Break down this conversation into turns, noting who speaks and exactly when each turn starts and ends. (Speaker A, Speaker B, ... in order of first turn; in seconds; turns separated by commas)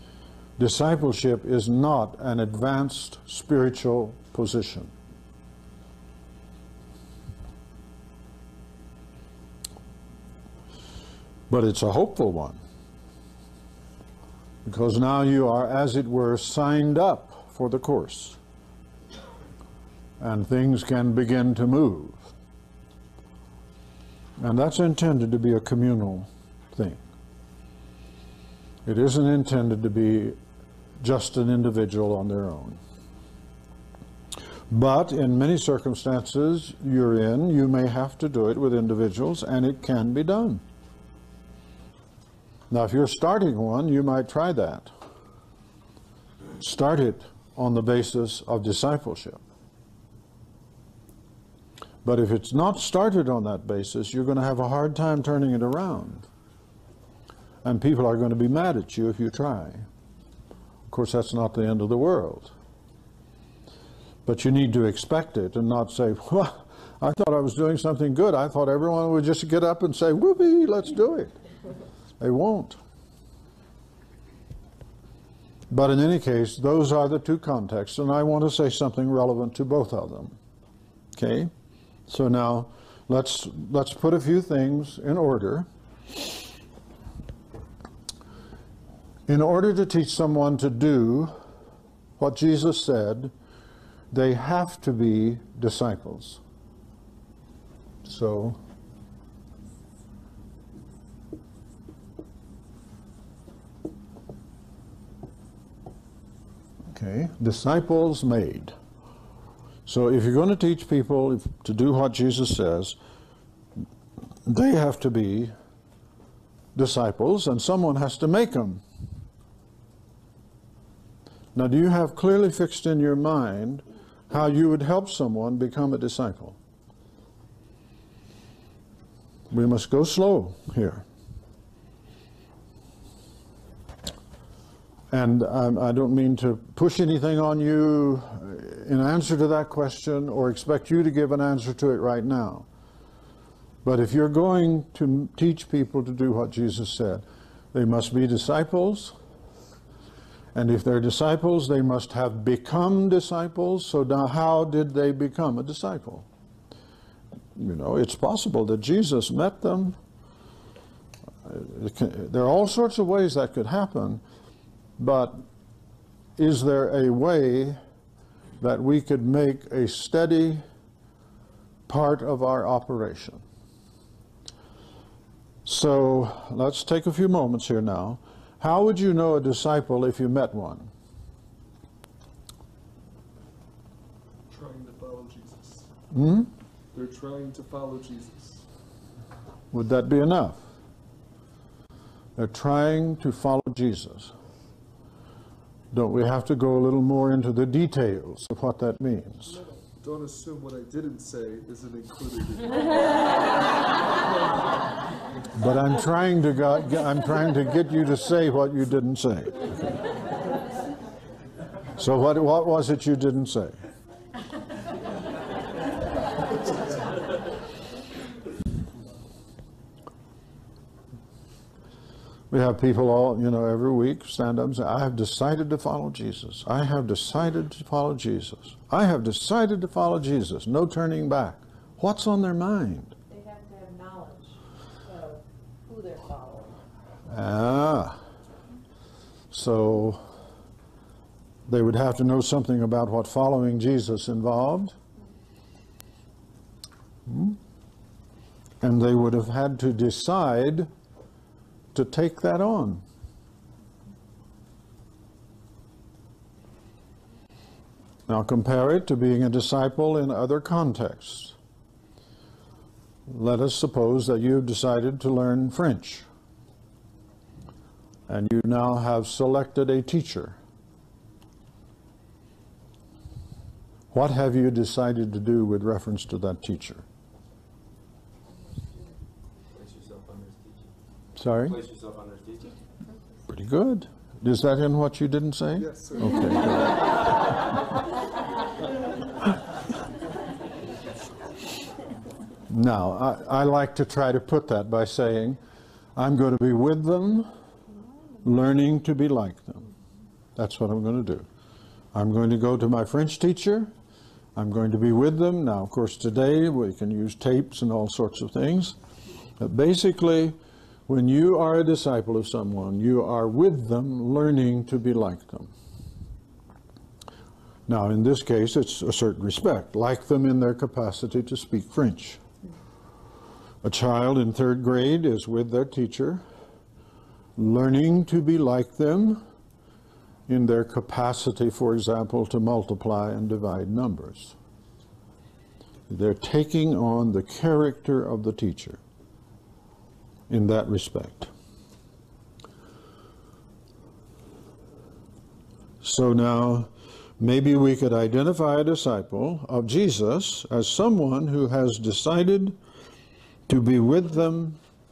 Speaker A: 0.6-4.9, Speaker A: 11.5-12.6, Speaker A: 14.7-18.4, Speaker A: 20.2-22.3, Speaker A: 24.4-27.0, Speaker A: 28.9-30.4, Speaker A: 31.0-32.8, Speaker A: 34.7-40.6, Speaker A: 42.7-44.9, Speaker A: 46.6-49.4, Speaker A: 52.0-56.3, Speaker A: 57.6-59.9, Speaker A: 60.9-62.5, Speaker A: 64.3-71.3, Speaker A: 72.2-72.8, Speaker A: 75.7-80.4, Speaker A: 81.2-81.5, Speaker A: 82.1-85.7, Speaker A: 89.3-91.3, Speaker A: 92.2-93.3, Speaker A: 94.1-96.4, Speaker A: 98.0-98.6, Speaker A: 106.9-108.8, Speaker A: 109.9-113.0, Speaker A: 114.5-115.5, Speaker A: 116.8-118.8, Speaker A: 121.5-126.6, Speaker A: 129.5-131.0, Speaker A: 135.1-142.7, Speaker A: 143.8-149.2, Speaker A: 150.6-156.3, Speaker A: 157.6-160.0, Speaker A: 161.4-164.2, Speaker A: 165.0-165.5, Speaker A: 166.4-167.8, Speaker A: 168.6-170.6, Speaker A: 171.9-173.4, Speaker A: 175.7-180.9, Speaker B: 184.5-185.8, Speaker A: 186.1-186.5, Speaker B: 186.9-188.6, Speaker A: 189.7-190.7, Speaker A: 192.4-194.3, Speaker A: 195.9-199.6, Speaker B: 200.0-203.3, Speaker A: 205.6-209.6, Speaker A: 212.0-213.8, Speaker A: 222.5-233.1, Speaker C: 233.3-236.8, Speaker A: 237.3-238.2, Speaker A: 239.5-240.3, Speaker A: 241.7-244.9, Speaker A: 247.3-247.6, Speaker A: 248.8-250.9, Speaker A: 251.9-253.0, Speaker A: 258.3-261.6, Speaker A: 263.3-266.3, Speaker A: 268.3-270.6, Speaker A: 274.1-277.1, Speaker D: 279.7-280.9, Speaker A: 281.4-281.8, Speaker D: 281.7-282.7, Speaker A: 283.5-286.9, Speaker B: 285.8-286.9, Speaker A: 292.7-295.6, Speaker A: 296.2-297.5, Speaker A: 298.4-299.9, Speaker A: 300.6-301.5, Speaker A: 302.1-303.9, Speaker A: 304.6-309.0, Speaker A: 309.6-310.6, Speaker A: 311.1-315.7, Speaker A: 317.9-322.4, Speaker A: 323.8-326.4, Speaker A: 327.6-329.4, Speaker A: 330.5-334.5, Speaker A: 336.1-339.0, Speaker A: 340.5-341.5, Speaker A: 346.0-352.8, Speaker A: 353.7-354.8